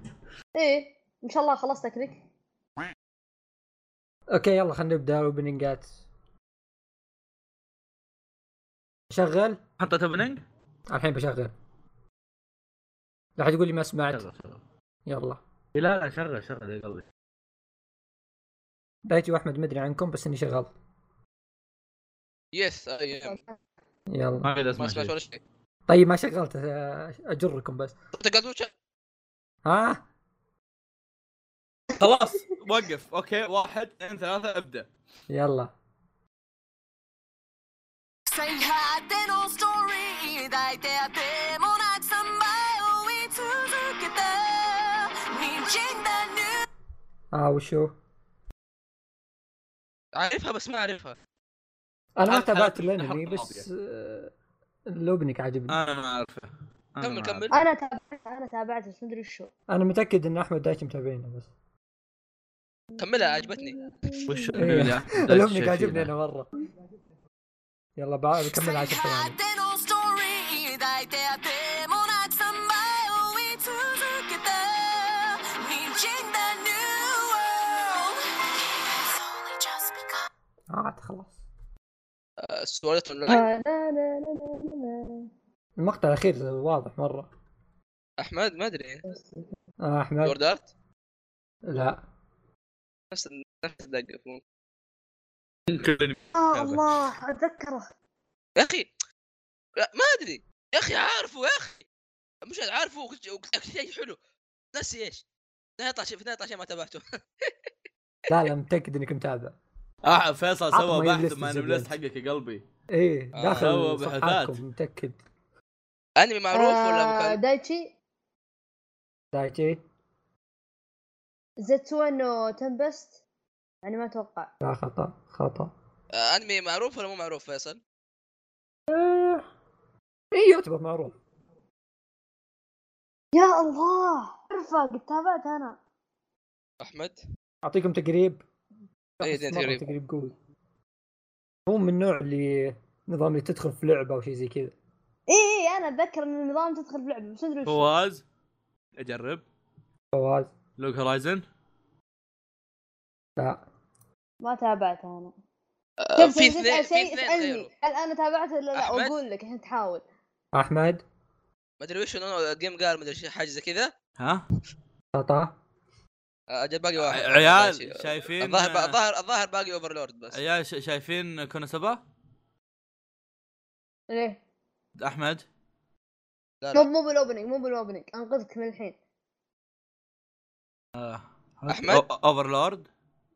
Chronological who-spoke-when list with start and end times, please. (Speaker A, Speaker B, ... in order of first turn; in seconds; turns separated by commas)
Speaker A: 0.6-2.2, Speaker B: 4.3-5.9, Speaker B: 9.1-9.6, Speaker C: 9.8-10.4, Speaker B: 10.9-11.5, Speaker B: 13.4-14.3, Speaker C: 14.1-14.6, Speaker B: 15.1-15.4, Speaker C: 15.8-17.0, Speaker B: 19.1-20.7, Speaker D: 22.5-23.4, Speaker A: 23.3-23.6, Speaker B: 24.1-24.5, Speaker C: 24.4-25.1, Speaker D: 24.8-25.4, Speaker B: 25.9-27.9, Speaker D: 28.1-28.7, Speaker B: 29.6-30.0, Speaker C: 32.0-34.9, Speaker B: 35.3-35.7, Speaker E: 38.3-46.6, Speaker B: 47.3-47.9, Speaker D: 50.1-51.2, Speaker B: 52.2-54.3, Speaker C: 52.2-53.7, Speaker B: 54.9-55.8, Speaker C: 55.7-57.5, Speaker D: 57.0-57.6, Speaker A: 57.5-59.5, Speaker B: 59.7-61.5, Speaker D: 63.0-63.8, Speaker A: 63.0-64.8, Speaker C: 64.3-66.1, Speaker B: 64.5-66.5, Speaker B: 68.0-69.4, Speaker E: 68.5-78.2, Speaker E: 78.7-80.2, Speaker B: 80.7-81.4, Speaker D: 82.4-83.5, Speaker A: 83.3-85.3, Speaker B: 85.8-87.3, Speaker D: 88.2-89.0, Speaker A: 89.1-89.5, Speaker B: 89.8-90.3, Speaker D: 90.2-90.7, Speaker B: 91.7-92.0, Speaker D: 93.1-94.4, Speaker C: 95.7-96.8, Speaker A: 96.4-97.9, Speaker D: 98.6-98.9, Speaker D: 99.8-101.8, Speaker D: 102.5-104.2, Speaker D: 104.7-105.2, Speaker D: 105.8-107.5, Speaker B: 108.3-109.6, Speaker C: 110.0-112.6, Speaker B: 110.7-111.9, Speaker B: 112.9-115.2, Speaker D: 113.3-113.7, Speaker C: 113.6-114.6, Speaker D: 116.2-117.4, Speaker A: 116.5-117.9, Speaker B: 119.3-119.8, Speaker A: 121.6-123.2, Speaker A: 123.8-124.5, Speaker B: 124.6-125.7, Speaker D: 126.1-127.8, Speaker A: 128.9-129.4, Speaker B: 130.3-131.2, Speaker A: 133.3-135.8, Speaker D: 136.8-137.2, Speaker B: 137.6-138.4, Speaker B: 139.2-140.3, Speaker D: 139.2-139.8, Speaker B: 141.7-144.7, Speaker A: 145.3-147.8, Speaker C: 147.7-148.2, Speaker C: 149.0-149.4, Speaker B: 150.1-150.5, Speaker C: 150.8-151.4, Speaker B: 153.4-153.6, Speaker A: 154.4-155.3, Speaker D: 156.0-157.7, Speaker A: 156.2-160.0, Speaker D: 158.8-159.1, Speaker B: 160.5-161.0, Speaker D: 161.8-163.9, Speaker C: 164.2-164.4, Speaker B: 165.1-165.5, Speaker D: 166.5-170.4, Speaker C: 167.0-169.0, Speaker C: 170.3-172.0, Speaker A: 174.1-174.4, Speaker C: 175.0-175.4, Speaker D: 176.6-176.9, Speaker A: 176.7-179.0, Speaker C: 181.0-182.9, Speaker D: 181.7-182.0